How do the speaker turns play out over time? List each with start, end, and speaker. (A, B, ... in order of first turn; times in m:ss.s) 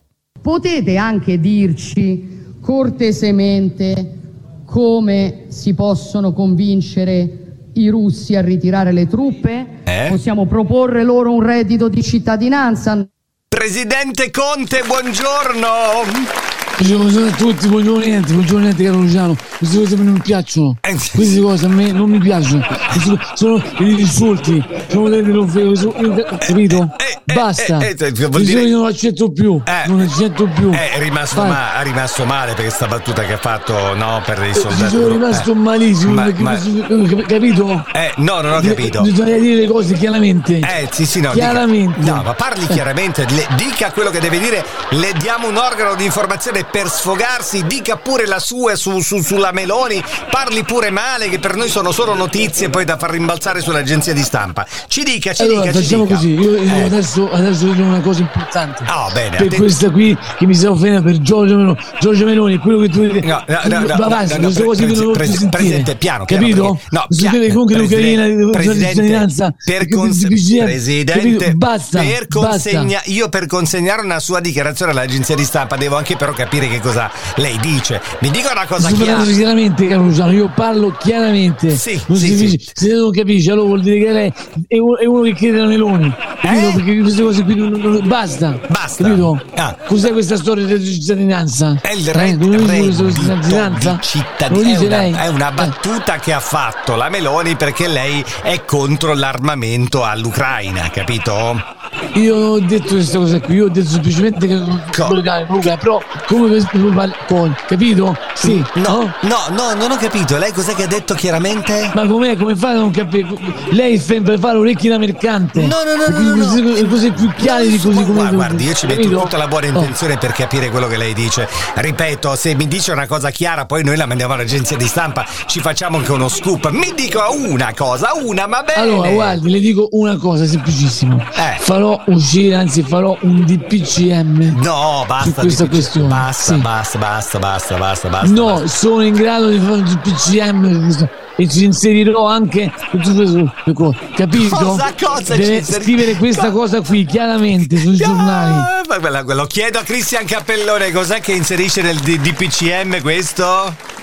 0:00.4-0:13.1 A
0:09.9-0:10.2 B
0:13.5-0:16.3 B
0:16.8-0:31.6 C
0:20.8-0:21.3 B
0:26.4-0:28.7 B
0:29.7-0:30.0 B
0:30.7-0:35.5 B
0:34.6-0:37.9 C
0:36.0-0:36.7 B
0:37.9-0:39.1 B
0:38.6-0:40.7 C
0:40.6-0:57.0 B
0:41.3-0:42.8 C
0:55.4-1:12.9 C
0:58.9-0:59.8 B
1:03.2-1:19.4 B
1:18.8-1:35.7 C
1:21.7-1:22.8 B
1:26.4-1:26.8 B
1:28.7-1:29.8 B
1:31.8-1:41.6 B
1:42.1-1:49.2 C
1:44.9-1:45.2 B
1:48.4-1:52.0 B
1:51.9-1:59.9 C
1:55.6-2:09.4 B
2:08.7-2:14.6 C
2:11.3-2:11.6 B
2:14.5-2:18.7 B
2:15.2-2:16.7 C
2:18.2-2:28.7 C
2:24.3-2:26.6 B
2:27.7-2:33.8 B